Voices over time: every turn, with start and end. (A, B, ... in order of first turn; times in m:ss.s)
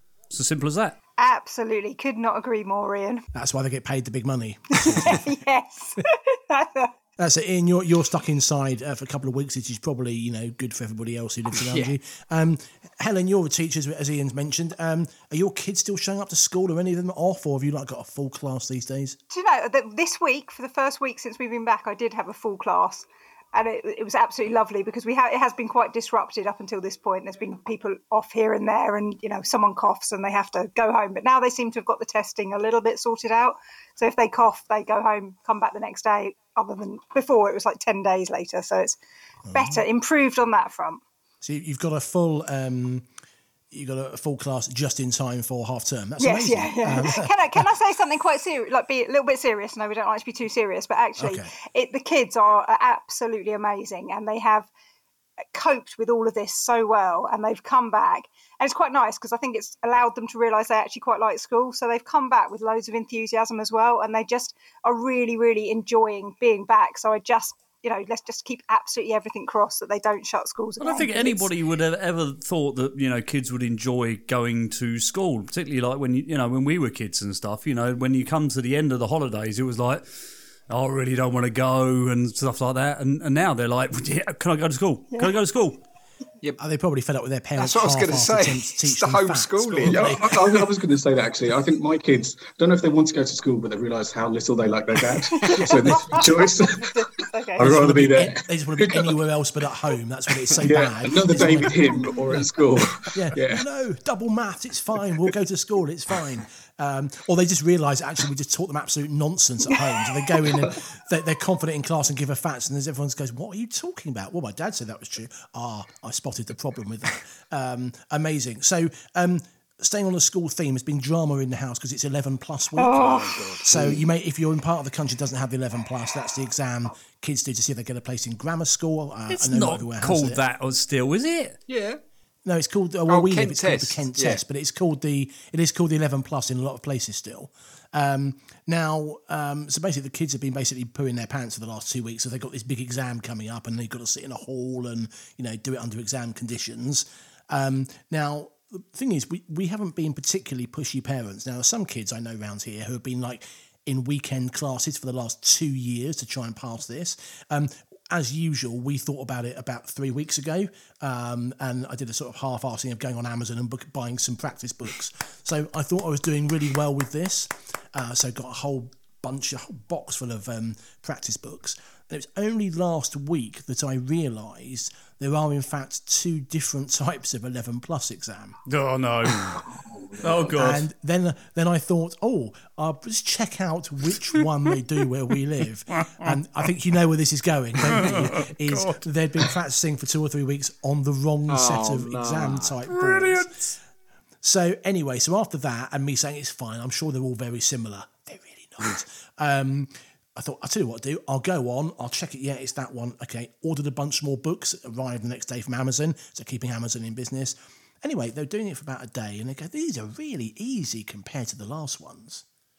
0:00.3-0:01.0 A
0:01.2-0:03.2 B
0:03.3-0:05.2 C
0:04.8-0:06.9 B
0:07.2-0:19.2 C
0:11.5-0:11.9 D
0:19.3-0:39.0 B
0:39.5-0:39.8 C
0:39.5-0:41.0 B
0:41.4-0:43.1 C
0:43.7-0:47.7 C
0:46.2-0:54.7 B
0:51.2-0:51.5 C
0:55.5-1:11.5 B
1:10.8-1:20.0 A
1:20.7-1:25.8 A
1:26.6-1:30.6 C
1:27.6-1:30.5 D
1:29.8-1:36.9 E
1:35.4-1:37.7 B
1:35.6-1:36.4 C
1:37.6-1:39.2 E
1:37.6-1:42.5 C
1:40.6-1:43.6 E
1:43.1-2:10.4 C
1:50.5-1:50.8 E
2:02.8-2:03.4 B
2:02.9-2:03.9 D
2:09.3-2:11.6 A
2:11.7-2:12.0 D
2:12.4-2:58.6 C
2:13.1-2:14.4 D
2:58.7-3:00.8 A
2:59.5-3:00.6 E
3:00.5-3:13.5 C
3:05.9-3:06.3 A
3:07.8-3:09.0 A
3:11.5-3:12.7 E
3:12.9-3:13.8 A
3:14.4-3:32.4 C